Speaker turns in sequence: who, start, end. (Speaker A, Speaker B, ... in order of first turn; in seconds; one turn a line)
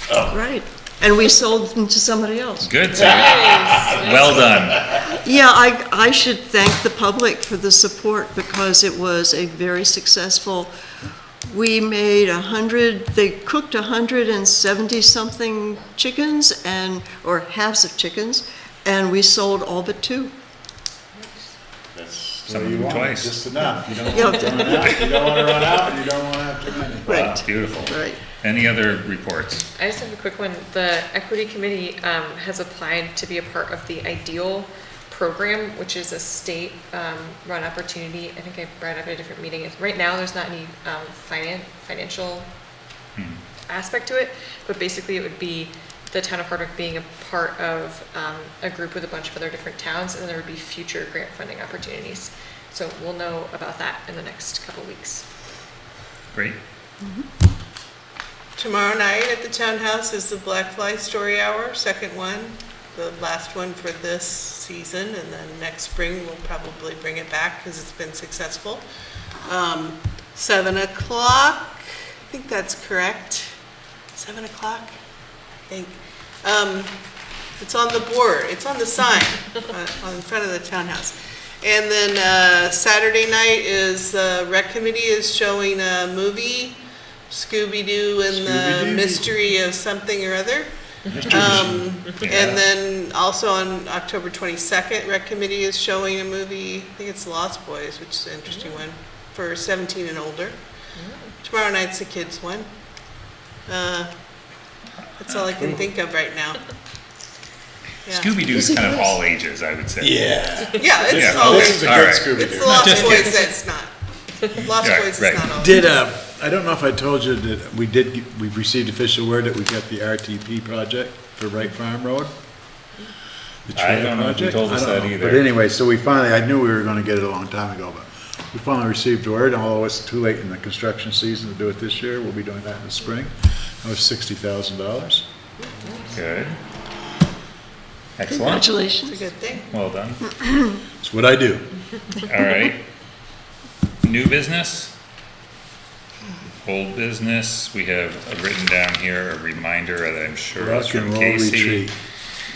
Speaker A: 0.3-2.7
Speaker B: 2.6-5.0
Speaker C: 3.0-4.5
Speaker D: 3.1-5.0
Speaker A: 5.0-10.7
Speaker A: 11.4-20.3
Speaker C: 21.1-21.5
Speaker D: 21.9-27.4
Speaker B: 22.5-23.4
Speaker A: 24.1-24.8
Speaker C: 24.1-25.7
Speaker B: 27.1-29.6
Speaker A: 27.1-28.2
Speaker C: 29.8-42.5
Speaker C: 43.7-55.2
Speaker A: 57.0-57.3
Speaker E: 58.6-68.8
Speaker E: 69.4-73.5
Speaker E: 74.2-74.9
Speaker E: 75.7-76.9
Speaker E: 77.6-86.8
Speaker E: 87.3-100.5
Speaker D: 88.3-89.3
Speaker B: 91.1-92.6
Speaker D: 91.1-91.9
Speaker C: 98.5-98.8
Speaker C: 101.0-101.3
Speaker E: 101.4-104.1
Speaker E: 105.2-106.6
Speaker B: 105.3-105.5
Speaker E: 108.0-108.5
Speaker B: 108.1-110.2
Speaker A: 108.5-109.2
Speaker D: 110.0-113.2
Speaker C: 110.6-111.1
Speaker E: 110.8-115.9
Speaker B: 111.1-113.4
Speaker C: 113.2-113.5
Speaker B: 114.8-115.5
Speaker D: 115.6-122.3
Speaker D: 123.7-135.2
Speaker B: 123.7-125.4
Speaker C: 135.8-136.2
Speaker B: 136.1-136.6
Speaker B: 138.2-138.8
Speaker A: 138.3-139.2
Speaker E: 139.1-139.7
Speaker B: 139.7-140.3
Speaker D: 141.0-141.7
Speaker B: 142.2-142.8
Speaker B: 144.0-144.9
Speaker B: 146.6-151.9
Speaker D: 150.6-151.9